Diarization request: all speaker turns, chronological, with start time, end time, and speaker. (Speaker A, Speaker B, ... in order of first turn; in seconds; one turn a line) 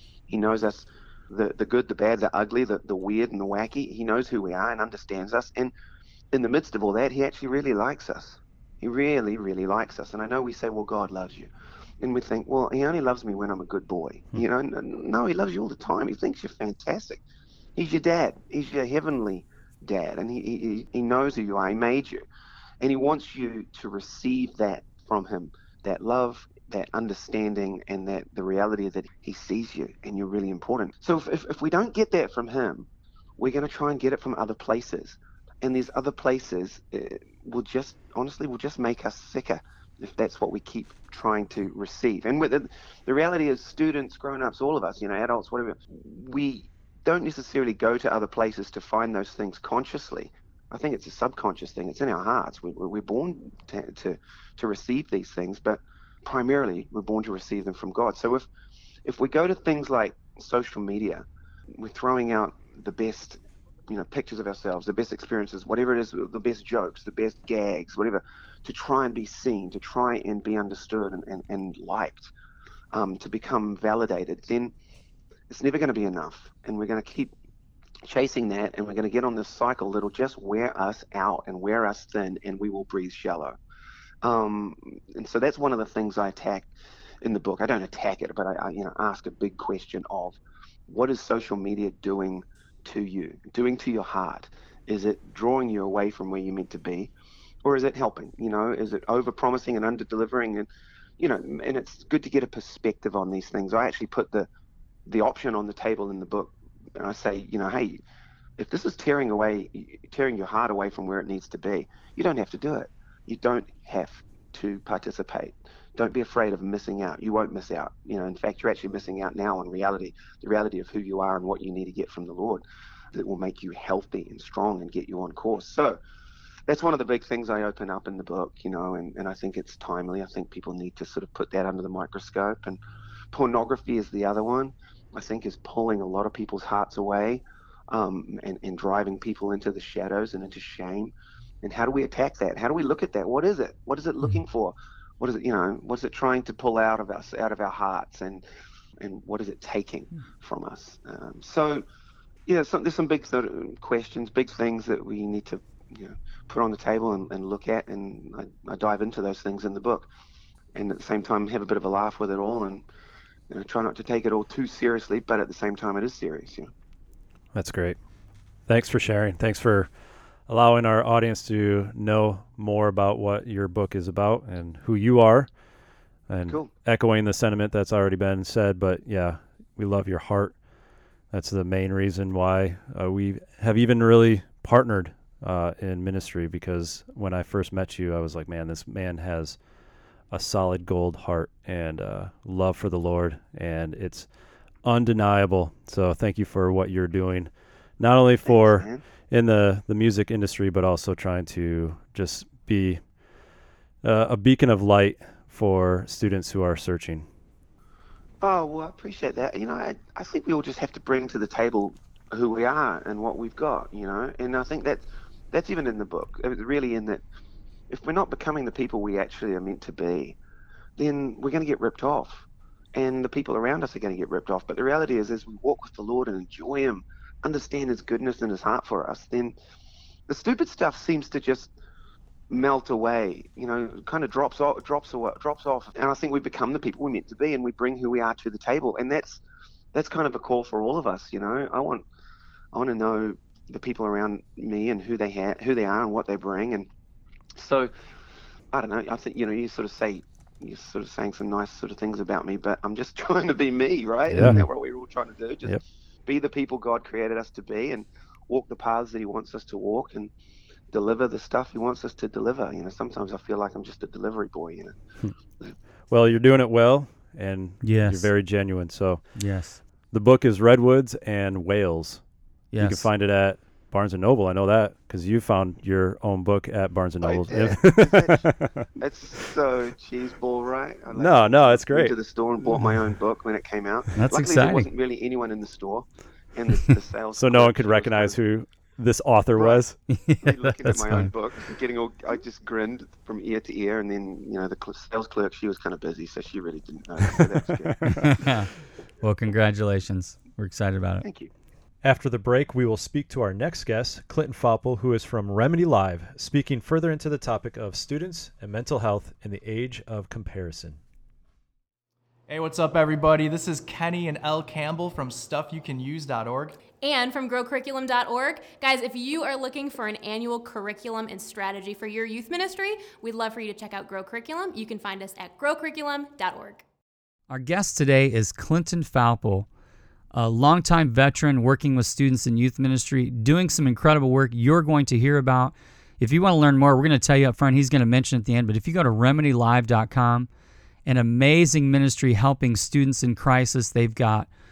Speaker A: 0.3-5.7
Speaker A: 6.3-17.2
Speaker A: 17.8-22.2
Speaker A: 22.8-58.5
Speaker A: 59.0-72.3
Speaker A: 72.9-74.7
Speaker A: 75.5-77.3
Speaker A: 78.0-83.6
Speaker A: 84.2-86.7
Speaker A: 87.2-97.1
Speaker A: 97.6-104.5
Speaker A: 105.1-108.0
Speaker A: 108.6-126.0
Speaker A: 126.7-132.8
Speaker A: 133.3-148.4
Speaker A: 149.0-151.8
Speaker A: 152.5-160.1
Speaker A: 160.8-162.8
Speaker A: 163.5-166.7
Speaker B: 167.5-168.0
Speaker B: 168.7-169.9
Speaker B: 170.5-175.5
Speaker B: 176.3-180.6
Speaker A: 176.5-176.7
Speaker B: 181.3-189.6
Speaker B: 190.3-194.3
Speaker B: 194.8-203.0
Speaker A: 198.4-199.0
Speaker B: 204.0-207.3
Speaker A: 208.4-217.2
Speaker A: 217.9-220.4
Speaker A: 221.0-229.5
Speaker A: 230.3-231.7
Speaker A: 232.5-239.4
Speaker A: 239.9-242.0
Speaker A: 242.7-246.9
Speaker A: 247.6-247.9
Speaker A: 248.7-260.3
Speaker B: 254.3-254.6
Speaker A: 260.9-265.0
Speaker B: 266.1-269.3
Speaker C: 267.8-268.3
Speaker C: 269.4-269.8
Speaker B: 270.0-272.2
Speaker C: 272.7-273.1
Speaker B: 272.8-278.9
Speaker A: 277.2-278.4
Speaker A: 279.0-288.4
Speaker B: 281.1-282.1
Speaker C: 284.1-284.9
Speaker B: 287.4-290.0
Speaker A: 289.6-289.8
Speaker C: 290.1-291.3
Speaker A: 290.4-298.4
Speaker C: 298.1-298.7
Speaker C: 299.2-301.2
Speaker A: 301.2-301.5
Speaker B: 302.0-311.0
Speaker D: 312.5-316.8
Speaker E: 317.0-326.8
Speaker C: 327.5-329.7
Speaker C: 330.3-340.5
Speaker C: 341.1-344.5